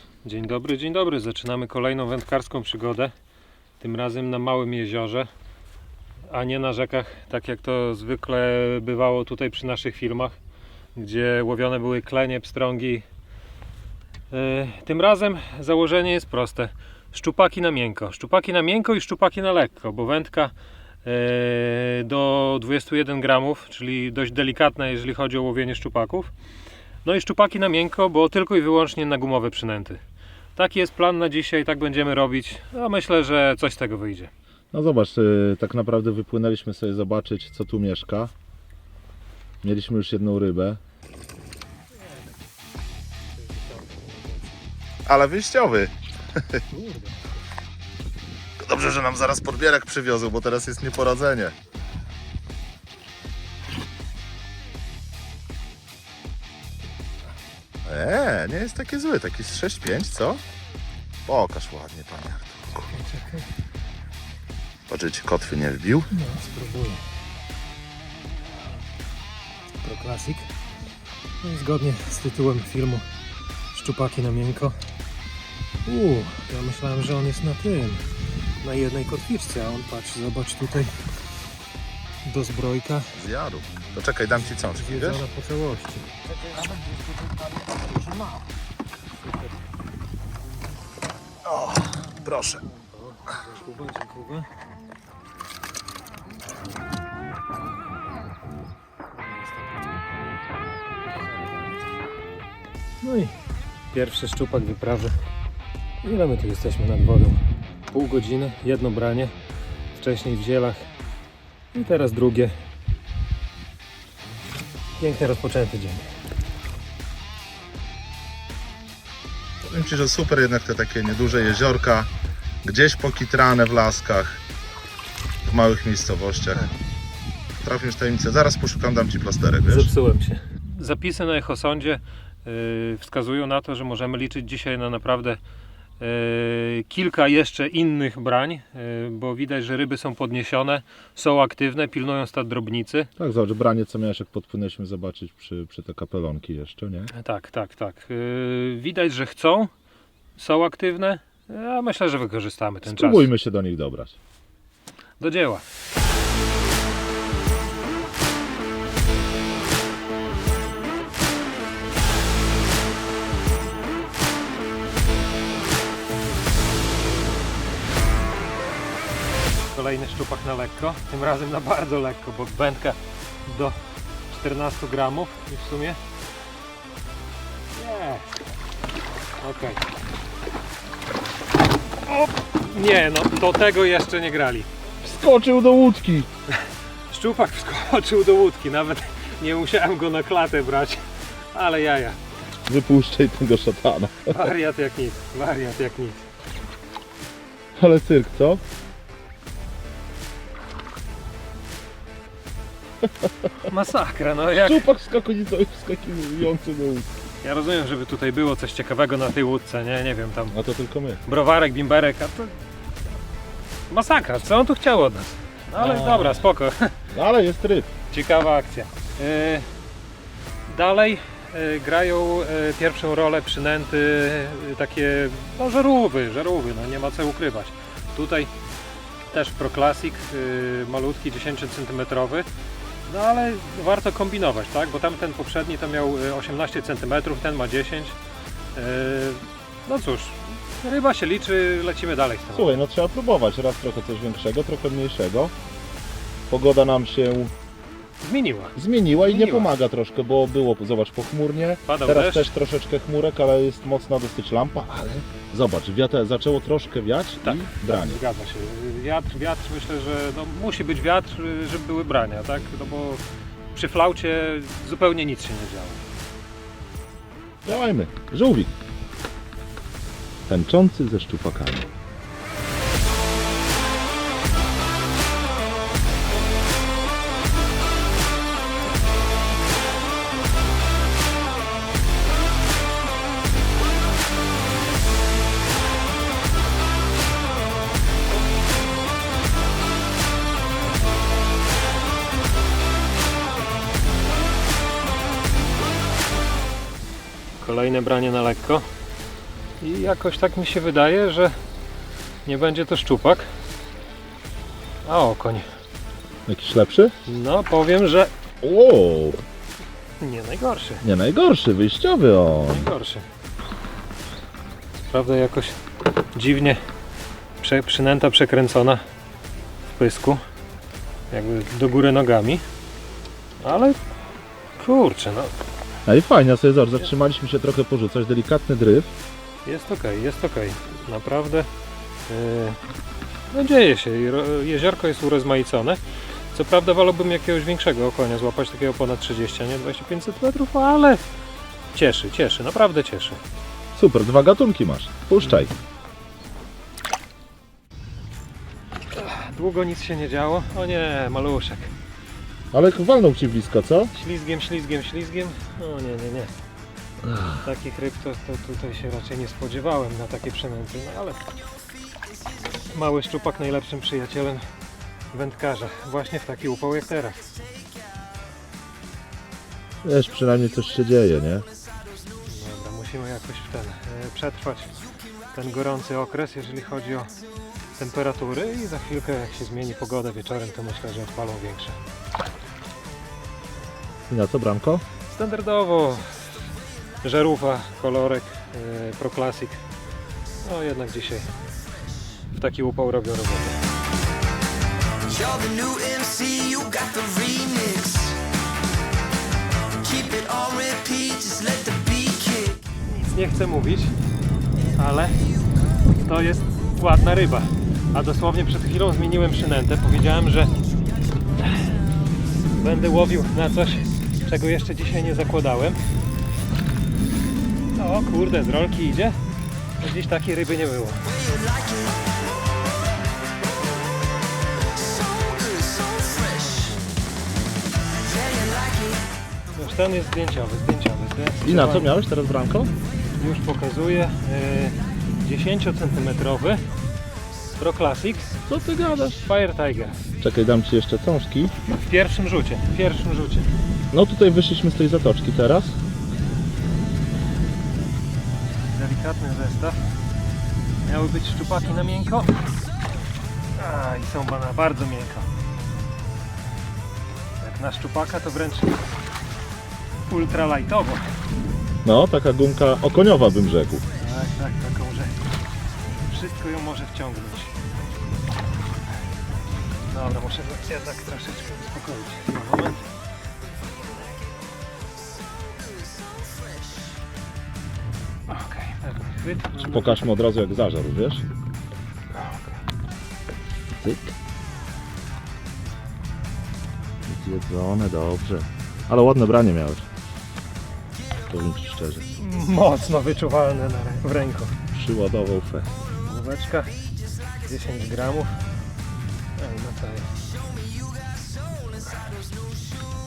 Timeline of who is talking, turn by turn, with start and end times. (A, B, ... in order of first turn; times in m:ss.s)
0:00.2-0:03.1 A
0:03.8-0:05.3 A
0:06.3-0:10.4 A
0:10.9-0:13.0 A
0:14.3-0:20.5 A
0:21.0-0:26.3 A
0:27.0-0:30.0 A
0:30.6-0:34.3 A
0:34.7-0:38.3 B
0:39.6-0:40.8 B
0:43.4-0:44.4 A
0:45.1-0:46.6 B
0:46.7-0:47.4 A
0:48.6-0:51.5 B
0:57.8-1:00.4 B
1:01.3-1:02.9 B
1:02.9-1:03.5 A
1:04.9-1:06.1 B
1:06.1-1:07.0 A
1:09.8-1:10.5 A
1:11.4-1:13.0 A
1:13.7-1:14.8 A
1:15.8-1:18.0 A
1:18.6-1:21.0 A
1:22.2-1:23.1 A
1:23.1-1:25.3 B
1:24.8-1:26.2 A
1:31.4-1:32.6 B
1:32.7-1:34.5 A
1:41.1-1:41.7 A
1:43.0-1:43.3 A
1:43.9-1:45.2 A
1:46.0-1:49.3 A
1:49.9-1:50.9 A
1:51.7-1:52.5 A
1:55.0-1:56.0 A
1:59.6-2:02.1 B
2:02.6-2:04.4 B
2:05.4-2:06.7 B
2:07.6-2:09.9 B
2:09.7-2:15.4 A
2:16.0-2:23.1 A
2:23.2-2:27.1 B
2:27.1-2:29.7 A
2:30.4-2:33.3 A
2:32.8-2:34.2 B
2:35.2-2:35.6 A
2:49.7-2:53.8 A
2:54.3-2:56.0 A
2:57.7-2:58.4 A
2:59.4-2:59.8 A
3:02.1-3:04.7 A
3:05.0-3:06.3 B
3:06.6-3:12.2 A
3:12.6-3:14.4 B
3:14.3-3:16.3 A
3:17.8-3:18.6 B
3:23.0-3:23.3 B
3:23.7-3:24.9 A
3:24.5-3:27.1 B
3:27.4-3:30.6 A
3:30.5-3:31.2 B
3:31.2-3:32.6 A
3:33.9-3:37.0 A
3:35.8-3:36.4 B
3:37.1-3:37.9 B
3:38.1-3:39.7 A
3:40.7-3:48.5 A
3:49.3-3:52.5 A
3:53.1-3:58.2 A
3:58.7-4:02.8 A
4:02.5-4:05.5 B
4:06.5-4:07.5 B
4:08.2-4:09.7 A
4:08.8-4:18.2 B
4:11.8-4:12.5 A
4:17.4-4:23.2 A
4:23.7-4:26.0 A
4:27.6-4:28.7 B
4:30.5-4:31.9 B
4:57.6-4:58.9 A
4:59.8-5:01.5 A
5:02.4-5:03.5 A
5:05.0-5:05.7 A
5:06.5-5:07.1 B
5:07.2-5:08.3 A
5:08.6-5:09.4 B
5:10.2-5:11.0 A
5:11.0-5:12.9 B
5:12.6-5:13.2 A
5:15.1-5:15.8 A
5:16.3-5:16.8 A
5:17.6-5:19.0 A
5:19.9-5:20.4 A
5:21.3-5:22.6 A
5:23.6-5:24.0 A
5:24.8-5:25.5 A
5:26.0-5:29.1 B
5:29.6-5:31.7 A
5:32.3-5:32.8 A
5:33.5-5:41.2 A
5:41.9-5:43.4 A
5:44.0-5:45.7 B
5:49.1-5:51.9 A
5:52.7-5:54.1 B
5:54.1-5:56.5 A
5:57.6-6:01.4 A
6:02.9-6:04.6 A
6:05.3-6:07.4 A
6:10.0-6:11.6 B
6:12.4-6:14.9 A
6:15.5-6:17.3 A
6:18.0-6:22.0 A
6:24.3-6:25.0 B
6:25.3-6:26.5 A
6:27.2-6:29.8 A
6:30.6-6:31.5 A
6:32.5-6:33.8 A
6:35.4-6:38.3 C
6:40.2-6:42.7 C
6:43.0-6:44.2 A
6:44.9-6:45.5 A
6:46.1-6:50.7 A
6:52.8-6:56.0 A
6:57.9-6:59.4 A
7:00.0-7:01.4 A
7:09.7-7:12.1 A
7:11.6-7:12.9 B
7:13.4-7:16.8 A
7:17.8-7:18.6 A
7:18.7-7:19.4 B
7:19.4-7:20.3 A
7:20.4-7:21.7 B
7:21.8-7:23.7 A
7:24.1-7:26.0 B
7:28.9-7:30.0 A
7:31.0-7:32.5 A
7:33.8-7:35.5 A
7:37.6-7:39.0 A
7:40.3-7:41.2 A
7:42.0-7:44.0 B
7:44.2-7:45.4 A
7:46.2-7:47.8 A
7:50.1-7:53.1 A
7:58.5-8:00.2 A
7:59.8-8:01.4 B
8:04.0-8:04.3 B
8:07.3-8:10.0 B
8:11.5-8:12.2 B
8:12.4-8:14.8 A
8:14.9-8:15.9 B
8:16.2-8:16.9 A
8:17.6-8:18.5 A
8:19.6-8:20.4 A